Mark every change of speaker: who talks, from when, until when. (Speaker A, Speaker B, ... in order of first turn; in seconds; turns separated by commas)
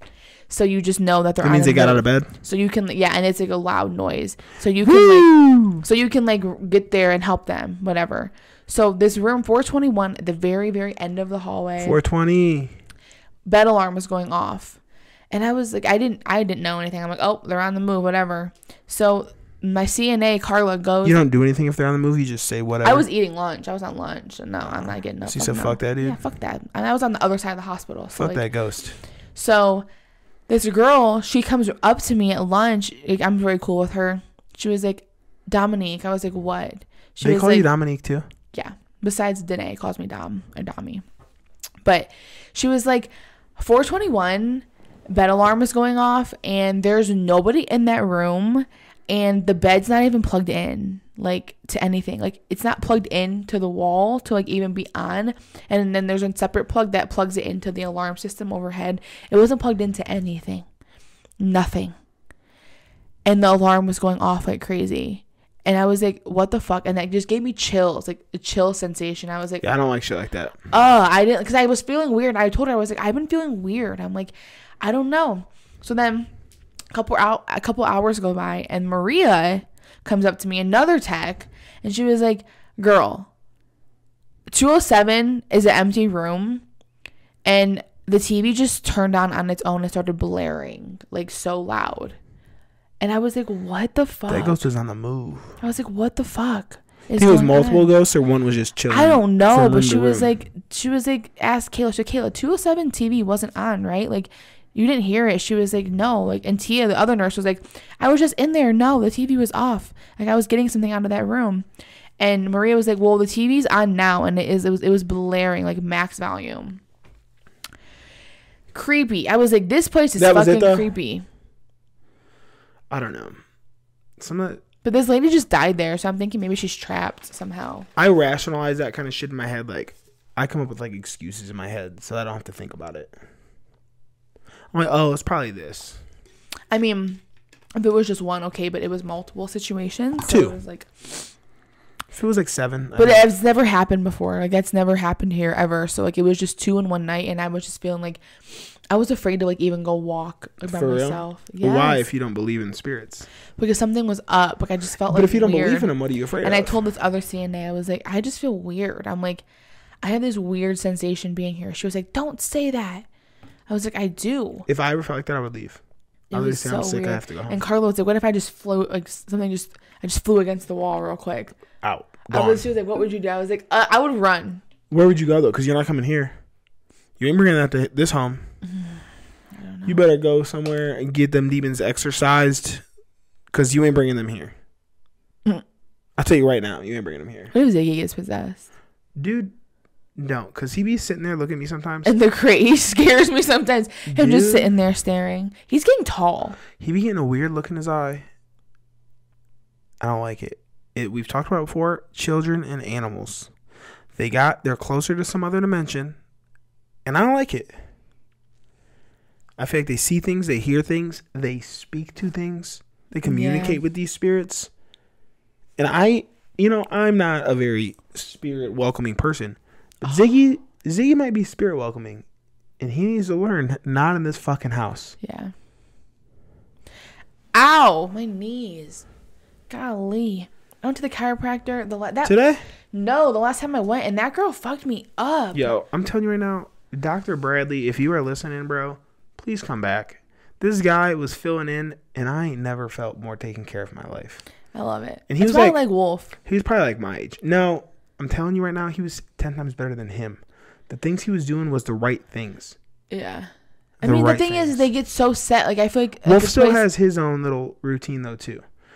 Speaker A: 0.5-12.0, Speaker B: 1.4-2.3, Speaker B: 4.8-5.8, Speaker B: 11.8-12.7, Speaker A: 13.4-14.8, Speaker A: 15.3-21.2, Speaker B: 21.0-23.1, Speaker A: 22.8-28.4, Speaker B: 25.2-26.2, Speaker B: 28.1-28.9, Speaker A: 29.3-29.9, Speaker A: 30.5-37.7, Speaker B: 37.2-38.2, Speaker A: 38.5-41.0, Speaker A: 41.8-60.6, Speaker A: 61.4-62.0, Speaker A: 63.2-69.6, Speaker B: 69.6-70.5, Speaker A: 70.7-76.3, Speaker A: 76.9-83.3, Speaker A: 84.5-86.6, Speaker A: 87.4-92.2, Speaker A: 93.0-94.6, Speaker B: 94.3-95.5, Speaker A: 95.6-97.9, Speaker B: 97.2-100.3, Speaker A: 98.9-111.7, Speaker A: 112.2-116.8, Speaker A: 118.7-121.2, Speaker B: 120.2-120.9, Speaker B: 122.9-123.4, Speaker B: 124.2-124.6, Speaker A: 124.8-127.9, Speaker B: 128.0-133.1, Speaker B: 134.7-136.0, Speaker A: 136.7-137.2, Speaker A: 137.8-141.3, Speaker B: 140.2-140.6, Speaker B: 142.1-143.2, Speaker A: 143.0-148.2, Speaker A: 148.9-152.1, Speaker B: 150.6-153.3, Speaker A: 153.6-155.9, Speaker B: 155.1-156.8, Speaker A: 156.4-159.4, Speaker A: 160.0-163.1, Speaker A: 163.7-164.7, Speaker B: 164.7-165.8, Speaker A: 166.3-171.5, Speaker B: 166.3-167.6, Speaker B: 171.8-172.7, Speaker A: 172.3-174.6, Speaker B: 174.9-176.3, Speaker B: 177.2-178.4, Speaker A: 178.6-180.0, Speaker B: 179.8-182.8, Speaker B: 183.5-184.5, Speaker B: 186.2-187.5, Speaker A: 187.5-188.7, Speaker B: 189.2-189.5, Speaker B: 190.2-192.1, Speaker A: 192.0-196.6, Speaker B: 194.1-194.8, Speaker B: 196.8-198.2, Speaker B: 200.0-203.5, Speaker B: 204.1-206.2, Speaker B: 207.0-207.7, Speaker B: 209.6-214.7, Speaker A: 213.2-213.8, Speaker B: 215.8-222.2, Speaker B: 222.8-225.2, Speaker A: 225.2-225.5, Speaker A: 227.5-229.1, Speaker A: 229.7-232.3, Speaker B: 232.2-232.6, Speaker A: 232.9-235.7, Speaker B: 235.5-244.4, Speaker A: 244.7-246.3, Speaker B: 245.3-245.8, Speaker B: 246.4-252.8, Speaker A: 253.1-253.5, Speaker A: 254.0-256.8, Speaker B: 254.0-254.9, Speaker B: 256.2-258.6